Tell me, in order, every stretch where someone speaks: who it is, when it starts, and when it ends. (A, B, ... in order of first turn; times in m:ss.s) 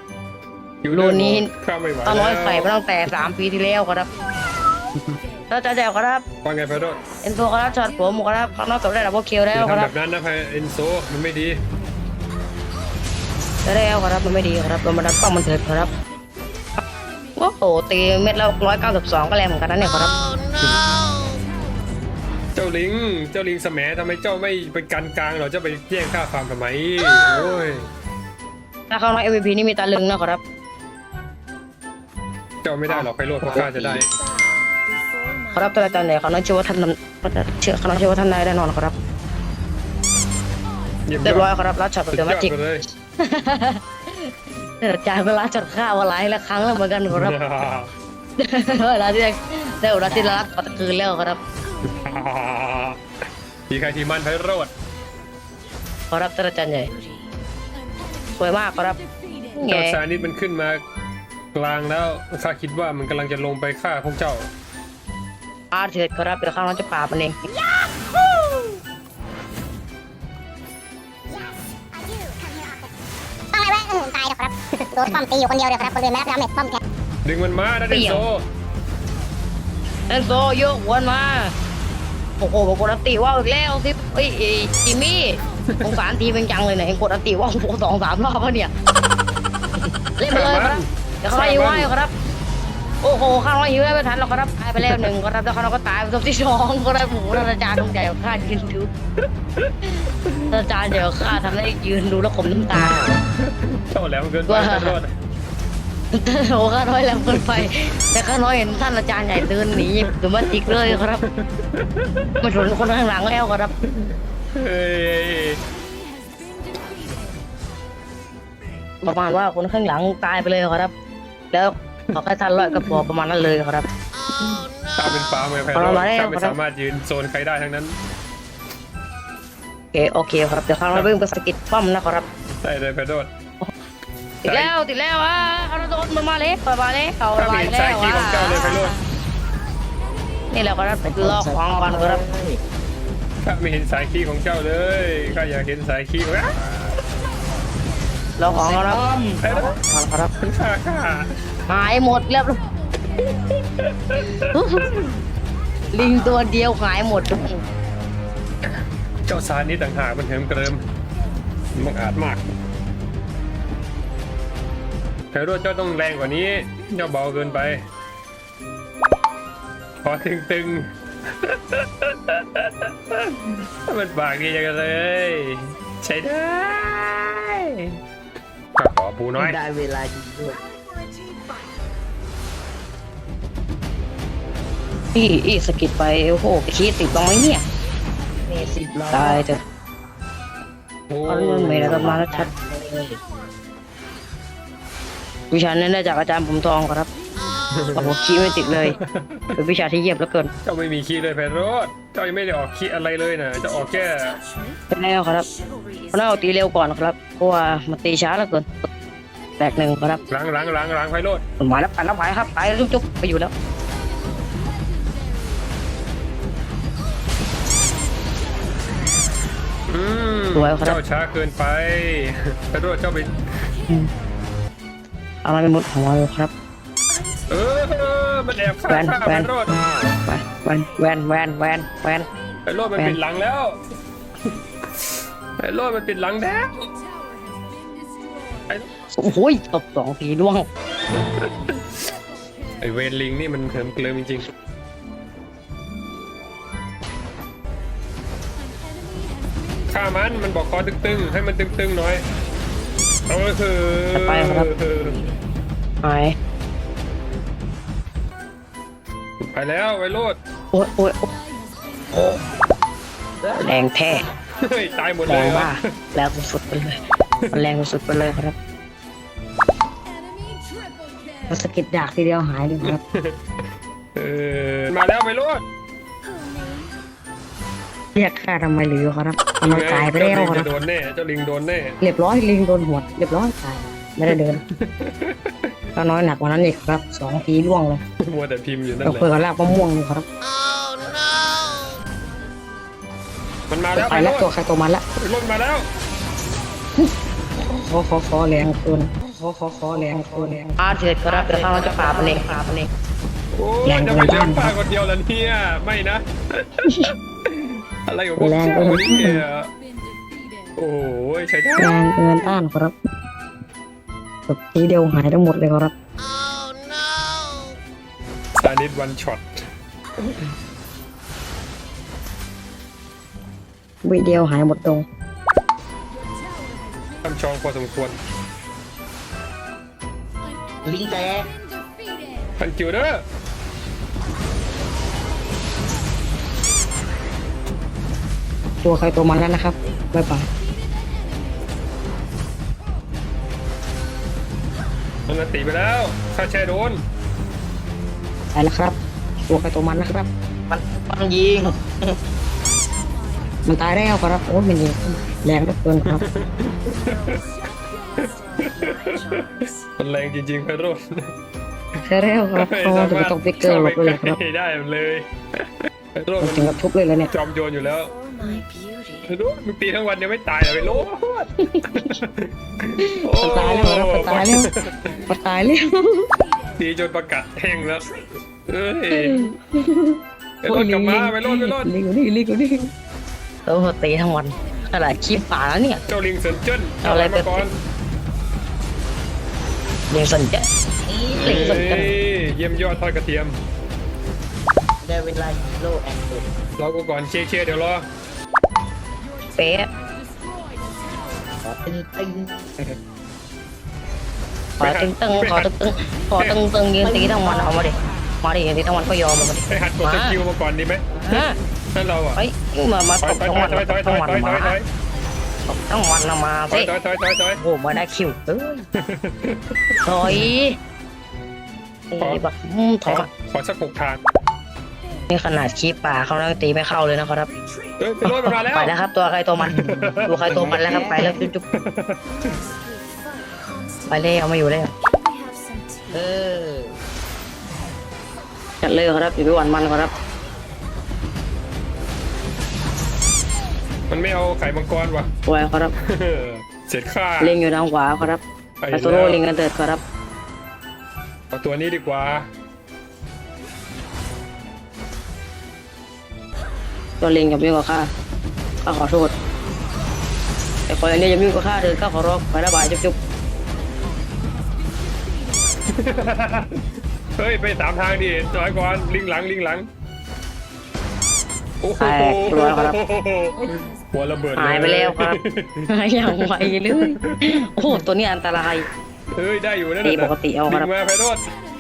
0:00.8-0:02.7 A
0:00.9-0:01.5 B
0:02.0-0:04.1 B
0:05.5-0:06.2 B
0:06.4-0:07.0 A
0:07.2-0:09.9 B
0:09.5-0:11.6 A
0:13.6-0:15.9 B
0:17.4-0:20.2 B
0:22.6-0:27.9 A
0:28.9-0:30.4 B
0:32.6-0:34.1 A
0:35.5-0:39.0 B
0:41.1-0:41.5 A
0:41.2-0:42.5 B
0:42.1-0:42.8 A
0:43.2-0:43.8 B
0:44.8-0:47.4 B
0:47.1-0:47.9 A
0:48.4-0:51.4 B
0:51.9-0:53.0 A
0:53.7-0:54.7 A
0:56.1-0:56.9 B
0:58.4-0:59.0 B
0:59.5-1:00.0 B
0:59.6-1:00.8 A
1:01.5-1:04.5 A
1:05.7-1:07.4 B
1:11.3-1:12.9 C
1:13.5-1:16.8 C
1:17.2-1:18.4 A
1:17.9-1:18.2 B
1:20.1-1:21.5 B
1:22.4-1:28.7 B
1:30.2-1:32.1 B
1:30.3-1:31.9 A
1:33.0-1:38.9 B
1:34.8-1:35.1 A
1:39.6-1:40.6 A
1:40.5-1:43.0 B
1:43.4-1:45.1 A
1:44.5-1:45.0 B
1:46.1-1:51.2 B
1:47.4-1:47.7 A
1:50.5-1:52.3 A
1:52.4-1:53.7 B
1:53.8-1:55.6 A
1:59.0-2:00.9 B
2:01.5-2:03.9 B
2:05.0-2:08.0 A
2:05.7-2:06.6 B
2:09.9-2:12.3 B
2:12.6-2:13.3 A
2:14.4-2:14.7 A
2:14.4-2:19.0 B
2:17.4-2:19.0 A
2:20.5-2:22.2 B
2:21.2-2:22.6 D
2:23.4-2:26.5 A
2:28.4-2:30.3 B
2:28.5-2:29.4 D
2:29.4-2:29.8 A
2:30.4-2:31.3 A
2:31.7-2:32.6 B
2:33.2-2:34.5 A
2:34.5-2:34.9 B
2:35.9-2:37.6 B
2:39.3-2:40.8 A
2:41.8-2:42.4 A
2:45.3-2:47.8 A
2:50.0-2:58.0 A
2:58.8-2:59.6 A
2:59.4-3:00.7 D
3:05.2-3:07.6 B
3:08.5-3:09.5 D
3:09.1-3:09.6 B
3:11.1-3:12.1 A
3:11.3-3:12.5 B
3:11.8-3:13.2 D
3:15.5-3:17.1 B
3:17.7-3:18.2 A
3:17.9-3:19.0 B
3:18.9-3:19.5 A
3:19.6-3:20.5 B
3:20.6-3:24.4 A
3:24.9-3:25.5 B
3:26.1-3:28.7 B
3:29.6-3:30.2 B
3:30.3-3:31.4 A
3:31.6-3:33.5 B
3:39.9-3:43.4 A
3:40.6-3:41.0 B
3:45.4-3:46.5 B
3:47.5-3:49.7 A
3:48.9-3:49.5 B
3:50.3-3:52.3 B
3:52.7-3:53.8 A
3:55.6-3:57.0 A
3:59.2-4:00.7 B
4:01.2-4:01.5 A
4:02.8-4:04.5 A
4:09.9-4:12.3 A
4:13.3-4:15.3 A
4:14.2-4:14.7 B
4:16.0-4:16.4 B
4:19.4-4:20.4 A
4:20.7-4:21.3 B
4:22.1-4:22.4 D
4:23.6-4:24.3 B
4:24.6-4:25.7 A
4:25.2-4:27.0 B
4:27.5-4:28.6 B
4:31.5-4:33.0 B
4:32.8-4:33.4 A
4:34.2-4:35.6 A
4:38.2-4:40.7 B
4:39.6-4:42.0 A
4:42.0-4:44.6 B
4:44.7-4:45.5 A
4:46.0-4:48.0 B
4:48.2-4:49.3 A
4:49.0-4:50.3 B
4:53.7-4:54.5 A
4:53.9-4:55.0 B
4:55.2-4:55.9 A
4:57.6-5:02.9 B
4:59.9-5:00.3 D
5:01.3-5:02.4 D
5:03.5-5:09.7 A
5:03.8-5:04.8 B
5:06.8-5:07.1 B
5:08.4-5:09.4 B
5:10.8-5:12.0 A
5:11.8-5:12.9 B
5:14.5-5:15.9 B
5:18.6-5:19.6 A
5:24.0-5:25.1 B
5:27.2-5:28.2 A
5:30.8-5:31.5 D
5:32.6-5:33.2 A
5:38.8-5:40.5 B
5:45.3-5:47.0 A
5:48.5-5:50.3 B
5:50.7-5:51.9 D
5:53.6-5:56.2 B
5:56.2-5:57.4 A
5:58.6-6:01.3 A
6:02.0-6:04.4 B
6:02.6-6:05.6 A
6:06.2-6:08.2 A
6:06.4-6:07.3 B
6:09.3-6:15.2 A
6:11.6-6:12.2 B
6:13.0-6:14.7 B
6:15.3-6:16.3 B
6:16.8-6:19.5 A
6:19.1-6:22.9 B
6:20.6-6:21.9 A
6:23.7-6:26.0 B
6:26.1-6:27.8 A
6:27.0-6:27.7 B
6:30.1-6:30.7 B
6:31.1-6:31.8 D
6:31.4-6:32.1 B
6:31.4-6:33.6 A
6:35.0-6:36.4 D
6:36.8-6:38.1 A
6:39.6-6:39.9 B
6:41.6-6:42.9 D
6:44.8-6:50.4 B
6:44.8-6:45.7 A
6:47.0-6:47.9 D
6:49.7-6:51.0 A
6:51.3-6:51.6 B
6:51.9-6:52.4 A
6:52.4-6:54.8 B
6:53.2-6:54.9 A
6:55.7-6:56.9 B
6:56.7-6:57.6 A
6:57.6-6:58.9 B
6:59.0-6:59.6 A
7:00.0-7:00.8 B
7:02.1-7:03.3 B
7:03.0-7:04.2 A
7:05.3-7:07.5 B
7:08.0-7:09.0 A
7:08.3-7:11.6 B
7:09.7-7:10.5 A
7:09.9-7:11.4 D
7:11.7-7:12.6 A
7:14.1-7:14.9 B
7:16.1-7:17.0 D
7:18.8-7:20.1 B
7:24.1-7:25.3 A
7:25.5-7:25.9 B
7:26.0-7:27.6 A
7:27.4-7:30.0 B
7:28.8-7:29.4 A
7:31.5-7:32.5 A
7:37.2-7:38.1 B
7:38.8-7:39.4 B
7:40.9-7:43.2 B
7:45.9-7:46.8 A
7:47.4-7:49.9 A
7:51.8-7:58.0 A
7:51.9-7:53.0 B
7:54.6-7:55.4 B
7:55.9-7:58.9 B
7:59.3-8:01.6 A
8:00.0-8:00.9 B